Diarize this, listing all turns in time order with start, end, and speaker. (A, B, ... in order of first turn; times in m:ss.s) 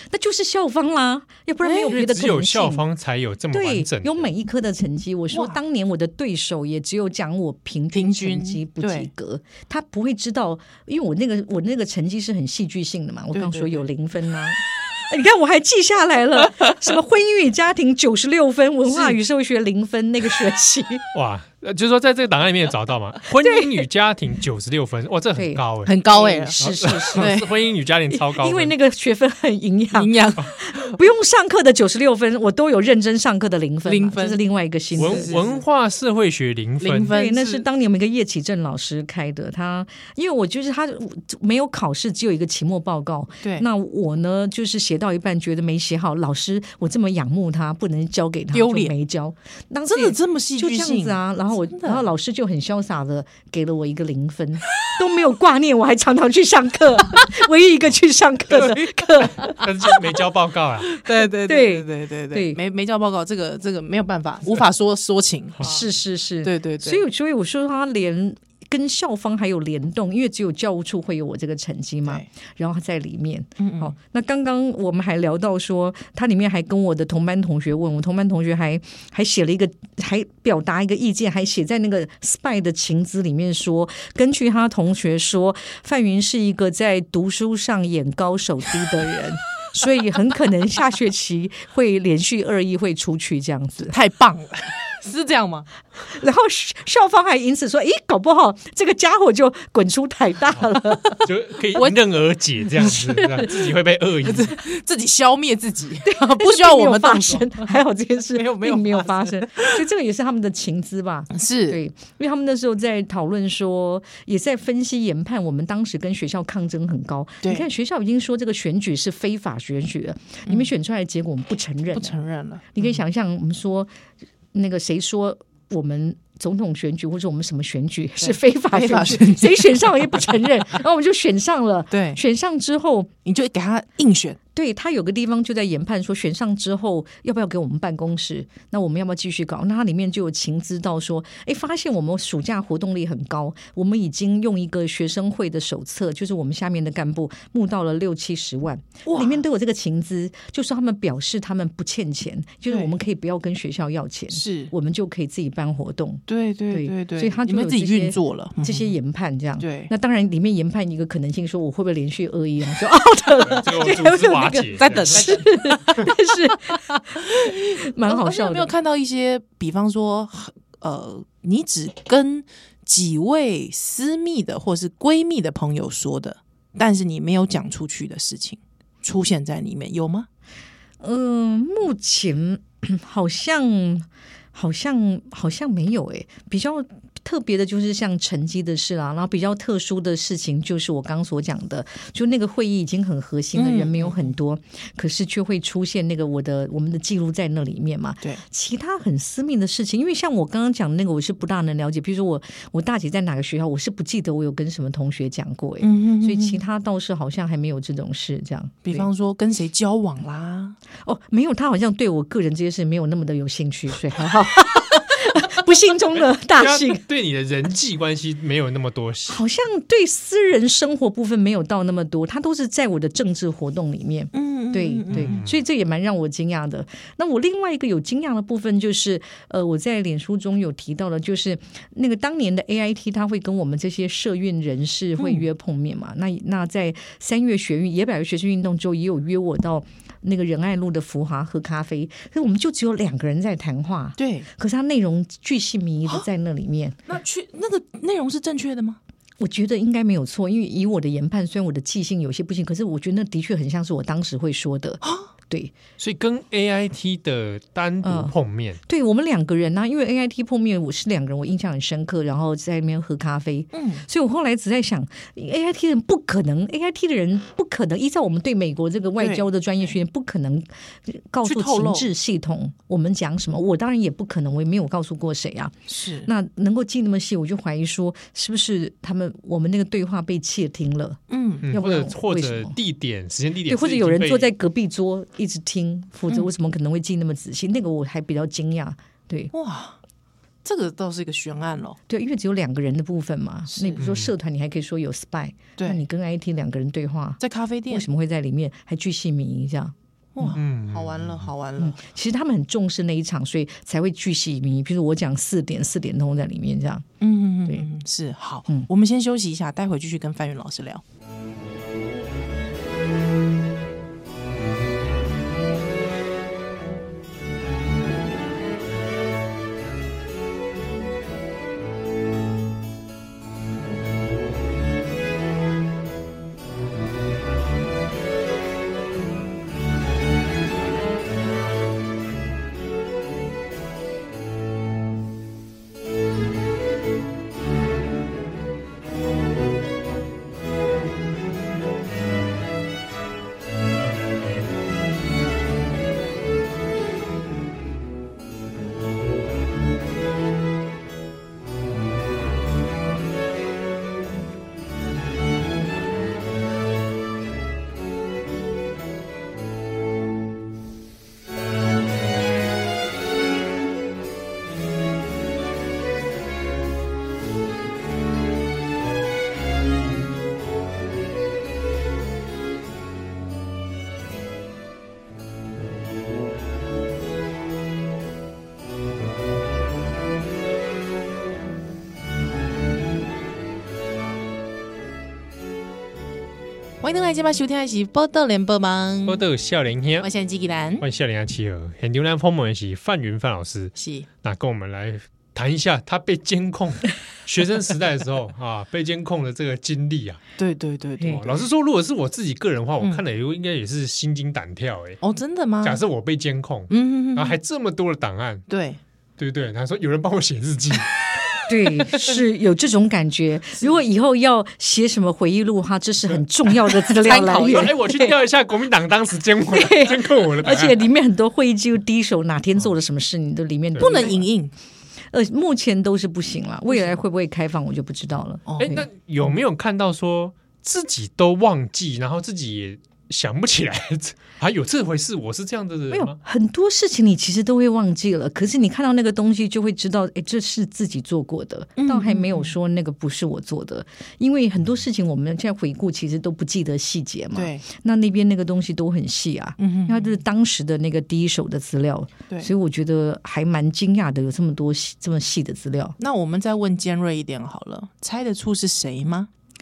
0:00.1-0:02.8 A
0:01.6-0:02.0 B
0:01.9-0:04.3 C
0:03.5-0:21.1 A
0:05.3-0:05.6 B
0:07.9-0:09.1 B
0:13.3-0:13.9 B
0:18.9-0:19.2 B
0:21.1-0:26.0 C
0:23.4-0:23.8 A
0:25.4-0:27.4 A
0:25.8-0:27.5 B
0:26.6-0:28.7 C
0:28.1-0:35.4 A
0:29.9-0:30.9 B
0:33.9-0:34.4 B
0:35.0-0:35.6 B
0:35.0-0:37.2 C
0:36.8-0:37.7 B
0:37.1-1:00.0 A
0:48.5-0:48.9 B
0:49.9-0:52.1 B
0:59.4-1:00.9 C
1:01.0-1:05.9 B
1:01.4-1:02.6 A
1:05.6-1:34.0 A
1:06.4-1:07.0 B
1:13.6-1:13.9 B
1:33.9-1:35.7 B
1:36.1-1:41.2 A
1:41.2-1:44.6 C
1:42.8-1:43.6 B
1:44.2-1:47.7 B
1:46.1-2:02.2 A
1:48.3-1:49.8 B
1:51.3-1:51.8 B
2:01.9-2:02.9 B
2:02.8-2:03.9 A
2:04.5-2:13.1 A
2:08.2-2:10.3 B
2:11.9-2:12.2 B
2:13.2-2:14.4 B
2:14.6-2:48.7 A
2:29.1-2:29.4 B
2:32.7-2:32.9 B
2:34.3-2:34.7 B
2:36.3-2:38.9 B
2:39.6-2:39.9 B
2:43.4-2:45.4 C
2:44.8-3:00.3 B
3:01.0-3:29.1 A
3:13.6-3:14.3 B
3:25.8-3:26.6 B
3:28.8-3:30.8 B
3:31.0-3:37.0 A
3:36.6-3:39.4 C
3:39.3-4:07.0 A
3:44.3-3:45.4 B
3:45.1-3:45.6 C
3:55.2-3:55.4 B
4:04.2-4:04.5 B
4:07.1-4:09.0 B
4:09.4-4:15.7 A
4:15.0-4:15.3 B
4:16.0-4:18.8 C
4:18.0-4:42.8 A
4:23.7-4:24.0 B
4:29.2-4:30.0 B
4:31.4-4:32.1 B
4:35.9-4:36.3 B
4:41.3-4:41.7 B
4:41.6-4:44.5 C
4:43.7-4:49.5 A
4:49.5-4:50.0 B
4:50.6-4:52.0 B
4:52.1-4:59.9 A
4:53.7-4:54.0 B
4:54.0-4:54.3 C
4:57.4-4:58.1 B
5:00.4-5:02.0 B
5:00.5-5:01.5 C
5:01.8-5:07.1 A
5:07.2-5:11.0 B
6:27.0-6:29.4 B
6:29.3-6:30.3 C
6:30.2-6:31.0 B
6:31.0-6:40.4 C
6:34.0-6:34.3 B
6:40.6-6:41.5 B
6:41.3-6:45.2 C
6:45.2-6:46.0 B
6:45.8-6:48.7 C
6:46.9-6:47.6 B
6:48.7-6:49.0 B
6:49.4-6:51.2 C
6:51.7-6:58.4 A
6:57.2-6:58.0 B
6:57.5-7:01.0 C
6:59.7-7:04.4 A
7:04.0-7:04.7 B
7:05.3-7:09.1 A
7:06.9-7:07.2 B
7:08.7-7:09.0 B
7:08.8-7:16.4 C
7:16.1-7:36.2 A
7:22.0-7:22.8 B
7:27.6-7:27.8 B
7:29.8-7:30.4 B
7:36.2-7:39.5 B